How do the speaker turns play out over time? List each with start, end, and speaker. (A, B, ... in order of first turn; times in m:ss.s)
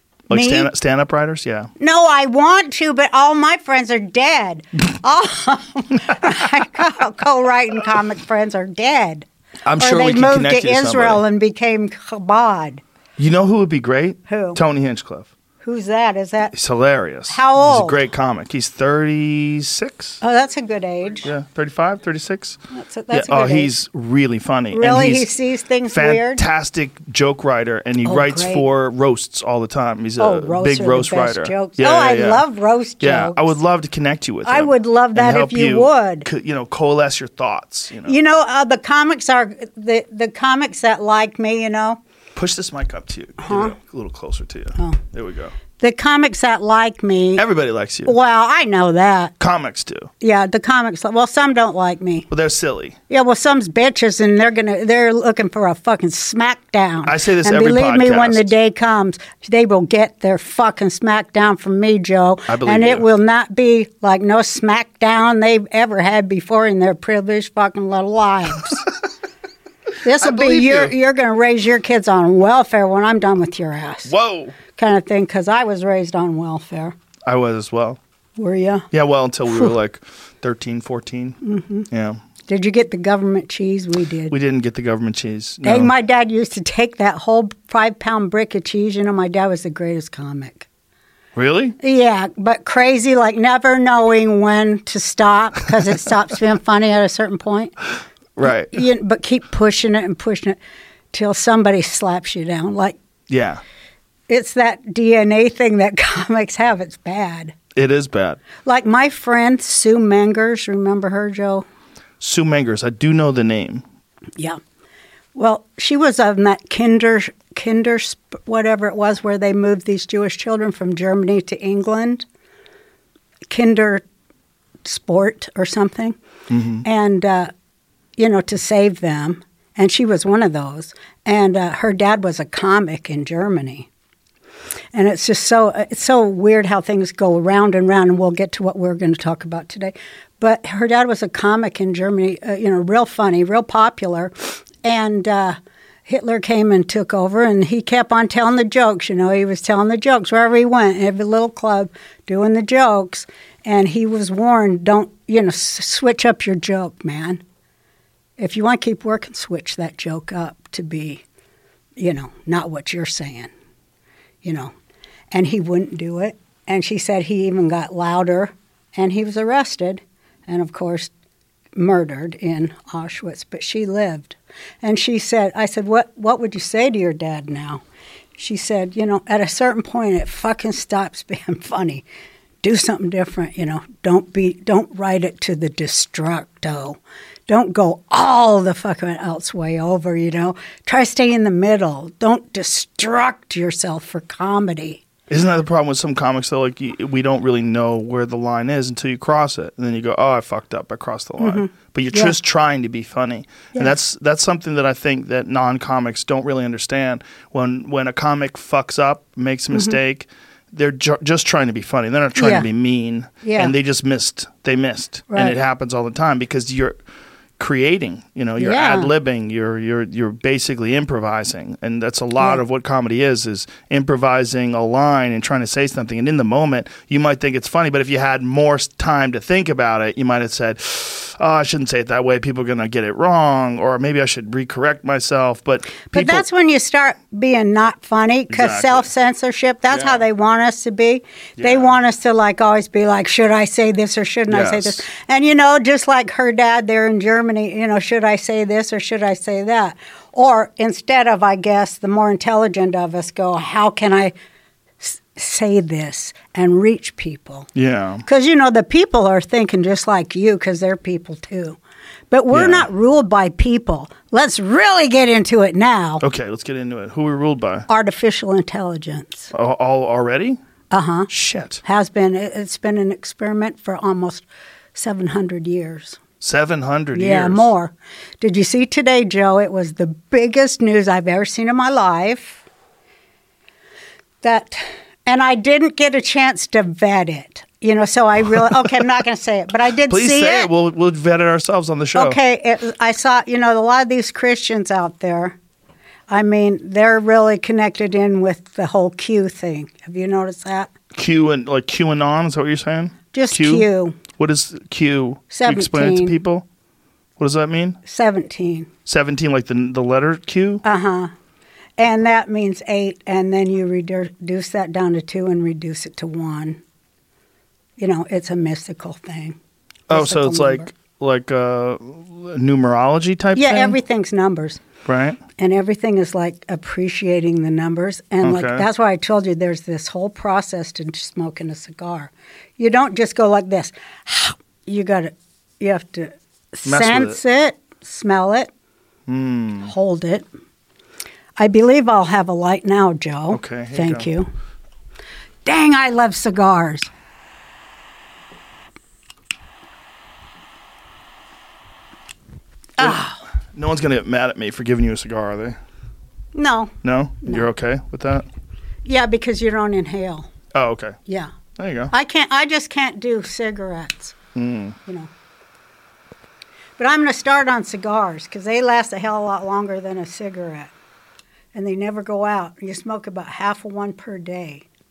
0:00.3-0:01.7 A
0:00.3-0:00.7 B
0:01.8-0:09.3 B
0:09.7-0:11.2 A
0:09.8-0:12.8 B
0:13.2-0:15.3 A
0:14.3-0:14.6 B
0:15.6-0:16.5 B
0:16.5-0:20.2 A
0:17.3-0:18.0 B
0:20.2-0:21.3 B
0:21.2-0:22.6 A
0:22.7-0:23.8 B
0:23.1-0:25.3 A
0:24.7-0:26.4 B
0:25.9-0:32.5 A
0:28.0-0:28.6 B
0:30.2-0:33.6 B
0:33.0-0:38.2 A
0:34.4-0:36.3 B
0:38.0-0:42.0 B
0:42.4-0:45.5 A
0:43.4-0:43.8 B
0:45.8-0:47.4 B
0:47.4-0:48.1 A
0:48.0-0:49.3 B
0:49.4-0:50.1 A
0:50.2-0:52.3 B
0:52.3-0:53.0 A
0:53.1-1:08.8 B
0:57.1-0:58.5 A
1:02.5-1:03.1 A
1:10.0-1:14.1 B
1:10.2-1:10.9 A
1:14.1-1:14.6 A
1:14.7-1:17.0 B
1:17.3-1:18.0 A
1:18.4-1:18.9 B
1:18.9-1:21.4 A
1:21.4-1:21.9 B
1:21.9-1:22.2 A
1:22.5-1:24.3 B
1:24.3-1:25.9 A
1:25.6-1:30.7 B
1:31.4-1:31.8 A
1:31.8-1:37.7 B
1:38.4-1:38.8 A
1:38.7-1:40.6 B
1:41.1-1:43.0 B
1:43.3-1:43.6 A
1:44.3-1:47.6 B
1:47.8-1:48.4 A
1:48.6-1:51.6 B
1:52.2-1:53.8 A
1:55.4-2:02.3 B
2:03.5-2:04.0 B
2:04.8-2:06.2 B
2:06.5-2:06.8 A
2:06.8-2:07.5 B
2:08.2-2:13.9 B
2:14.9-2:37.4 B
2:38.4-2:41.2 B
2:42.0-2:43.5 B
2:44.4-2:44.7 B
2:45.3-2:51.1 B
2:51.8-2:57.8 B
2:58.4-3:02.0 B
3:02.6-3:15.0 B
3:15.3-3:37.0 A
3:21.4-3:22.4 B
3:32.4-3:32.7 B
3:33.4-3:33.8 B
3:35.3-3:35.6 B
3:37.6-3:56.5 A
3:38.6-3:39.1 B
3:56.1-4:14.4 B
3:58.5-3:59.1 A
3:59.9-4:00.2 A
4:01.6-4:01.9 A
4:04.5-4:05.0 A
4:15.0-4:17.7 B
4:17.8-4:18.2 A
4:18.2-4:21.8 B
4:22.3-4:26.2 B
4:22.5-4:22.9 A
4:26.2-4:27.9 A
4:27.9-4:29.5 B
4:29.5-4:30.6 A
4:30.9-4:31.3 B
4:31.3-4:31.8 A
4:31.8-4:36.2 B
4:36.4-4:37.7 A
4:37.1-4:42.6 B
4:44.4-4:50.7 B
4:50.1-4:52.4 A
4:52.1-4:55.6 B
4:56.3-5:00.9 B
5:01.1-5:06.6 A
5:03.3-5:04.2 B
5:05.5-5:06.4 B
5:07.4-5:08.0 A
5:08.0-5:08.9 B
5:09.1-5:10.8 A
5:10.8-5:11.3 B
5:12.0-5:16.8 B
5:18.0-5:19.6 B
5:20.1-5:20.9 B
5:20.1-5:24.0 A
5:23.6-5:24.8 B
5:25.0-5:25.4 A
5:25.6-5:38.7 B
5:28.4-5:28.9 A
5:36.9-5:37.4 A
5:39.3-5:39.9 A
5:39.8-5:40.5 B
5:41.6-5:44.5 B
5:43.5-5:44.3 A
5:45.6-5:47.1 B
5:53.0-5:53.2 A
5:53.0-5:53.4 B
5:53.7-5:55.8 A
5:56.5-5:57.7 B
5:57.0-5:58.5 A
5:59.0-6:00.5 B
6:00.7-6:01.2 A
6:01.3-6:01.5 B
6:01.8-6:02.1 A
6:02.1-6:04.4 B
6:04.6-6:05.0 A
6:07.0-6:10.9 B
6:11.7-6:14.8 B